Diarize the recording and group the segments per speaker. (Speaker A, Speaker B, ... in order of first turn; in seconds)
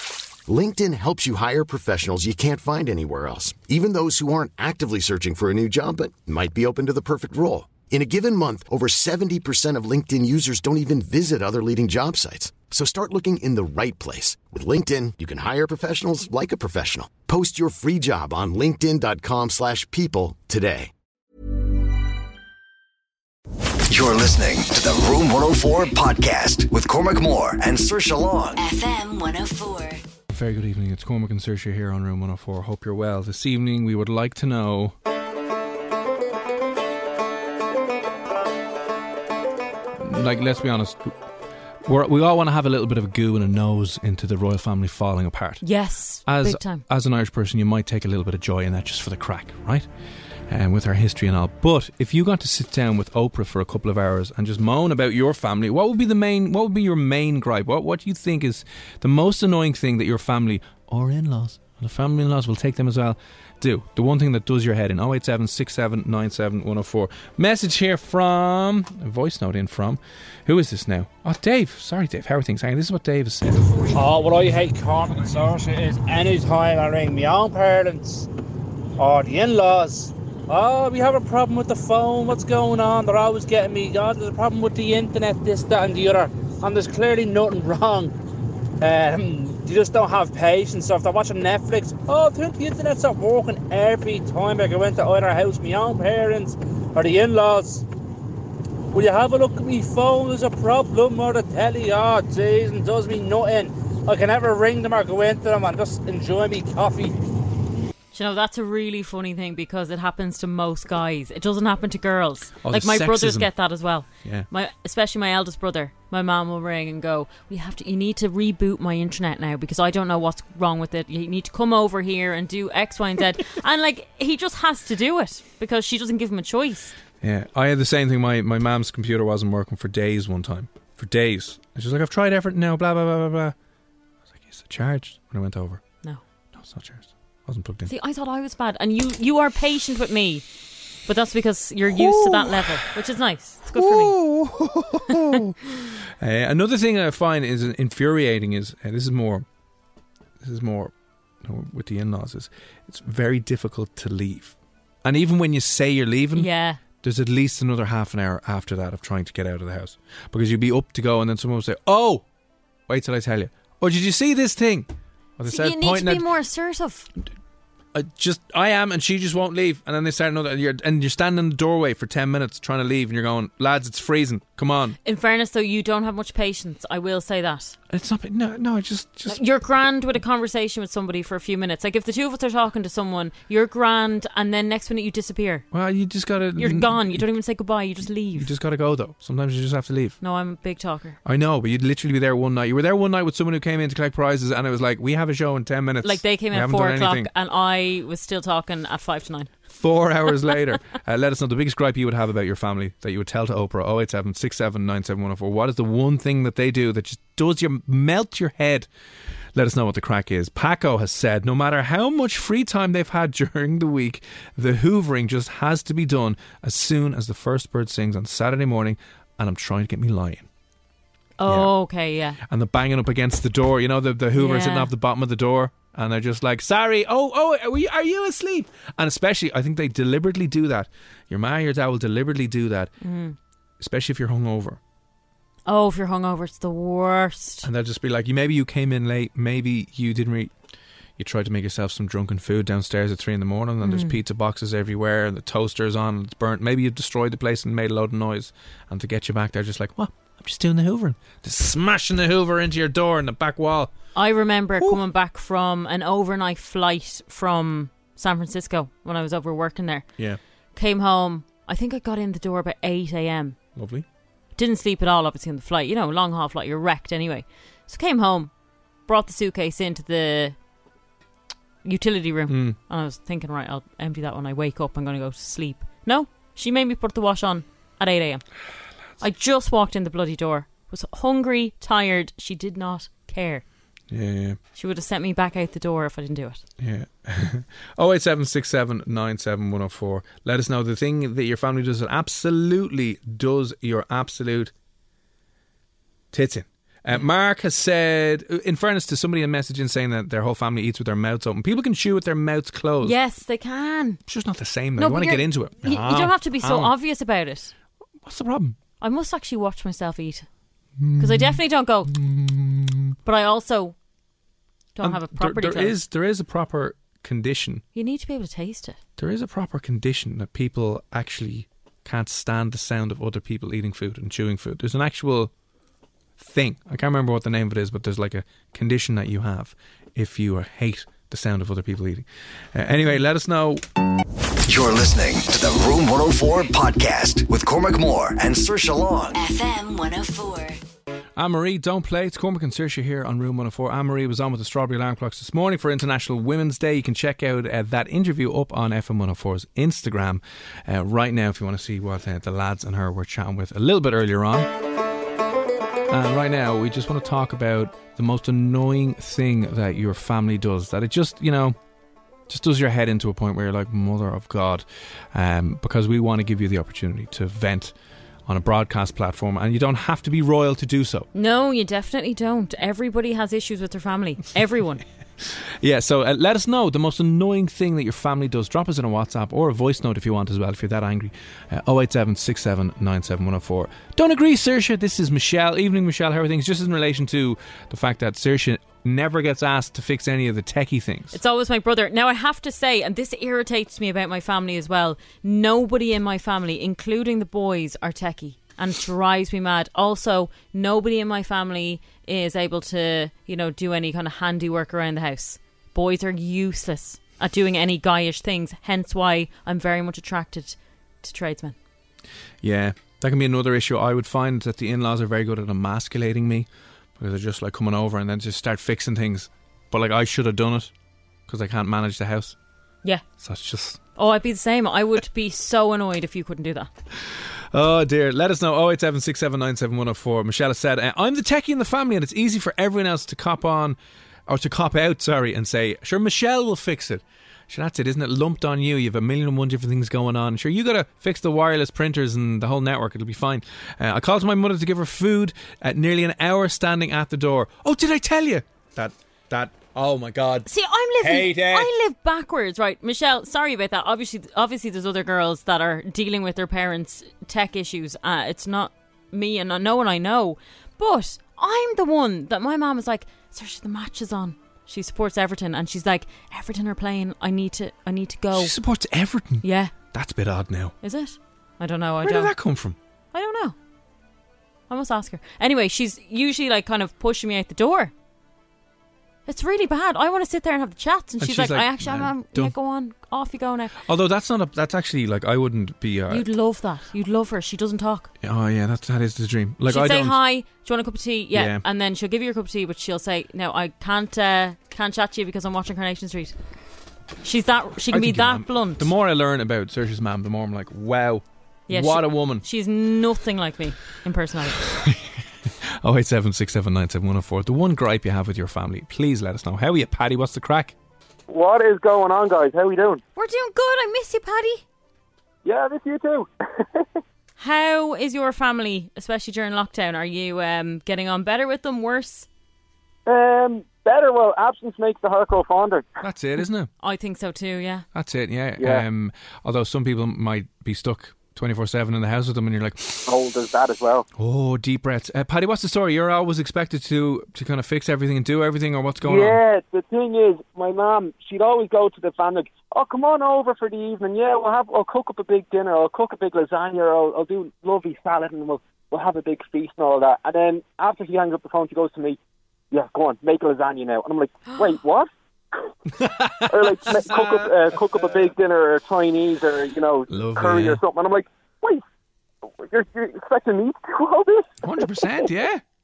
Speaker A: 0.5-20.9
Speaker B: 23.9-28.6, 334.7-339.4
Speaker C: 28.5-30.0, 339.3-340.8
Speaker D: 30.3-34.9, 40.0-41.1, 41.8-45.6, 46.2-49.9, 50.5-73.6, 112.6-113.5, 127.2-133.5, 134.3-135.8, 136.5-137.9, 141.9-142.9, 143.7-149.4, 150.4-156.5, 157.0-162.2, 162.9-166.3, 167.9-175.0, 177.9-179.4, 185.7-187.3, 188.3-190.2, 191.2-197.3, 199.7-208.9, 209.5-220.5, 221.4-221.7, 222.4-232.9, 233.8-234.8, 237.6-240.5, 241.2-253.9, 263.7-264.0, 272.5-272.8, 284.1-284.6, 286.8-294.7, 296.3-303.1, 304.2-306.9, 308.2-308.8, 311.0-313.1, 315.0-317.8, 319.2-325.5, 326.4-333.8, 341.4-354.8, 356.1-361.8, 362.5-367.9, 368.4-371.3, 375.4-391.4, 412.6-420.9, 421.5-422.6, 423.4-424.0, 427.3-450.7, 451.2-451.9, 468.5-470.9, 472.2-473.0, 481.4-482.7, 484.0-486.5, 488.4-490.4, 491.5-491.8, 498.1-502.6, 504.8-510.9, 526.2-526.9, 528.1-533.3, 534.4-539.6, 556.2-557.7, 560.3-561.0, 564.8-565.8
Speaker E: 45.6-46.8, 73.5-74.0, 108.1-126.9, 137.9-140.4, 141.1-144.2, 156.3-156.8, 165.4-167.1, 175.0-177.8, 179.3-185.7, 186.6-188.5, 190.2-191.2, 196.0-199.5, 221.4-222.4, 224.3-224.9, 233.0-233.3, 235.7-237.7, 243.8-244.2, 254.1-260.1, 260.7-263.6, 264.6-268.5, 269.1-270.6, 271.8-278.4, 279.2-283.6, 284.8-286.6, 303.0-304.2, 305.0-307.7, 309.0-310.4, 311.2-312.1, 313.2-313.9, 314.9-316.0, 317.9-319.0, 371.3-375.0, 391.3-411.8, 424.1-426.9, 450.6-468.8, 469.6-469.9, 471.0-472.5, 473.3-473.8, 474.9-478.1, 479.5-483.9, 486.3-488.3, 489.9-496.5, 497.4-499.1, 501.9-504.9, 513.4-514.8, 517.6-522.5, 527.0-528.0
Speaker F: 73.9-78.3, 79.0-88.1, 88.8-97.8, 98.9-107.1
Speaker G: 511.5-513.2, 515.6-517.0, 523.2-526.1, 528.8-529.0, 533.3-534.3, 539.2-552.4, 552.9-555.3, 556.6-562.0, 562.8-564.7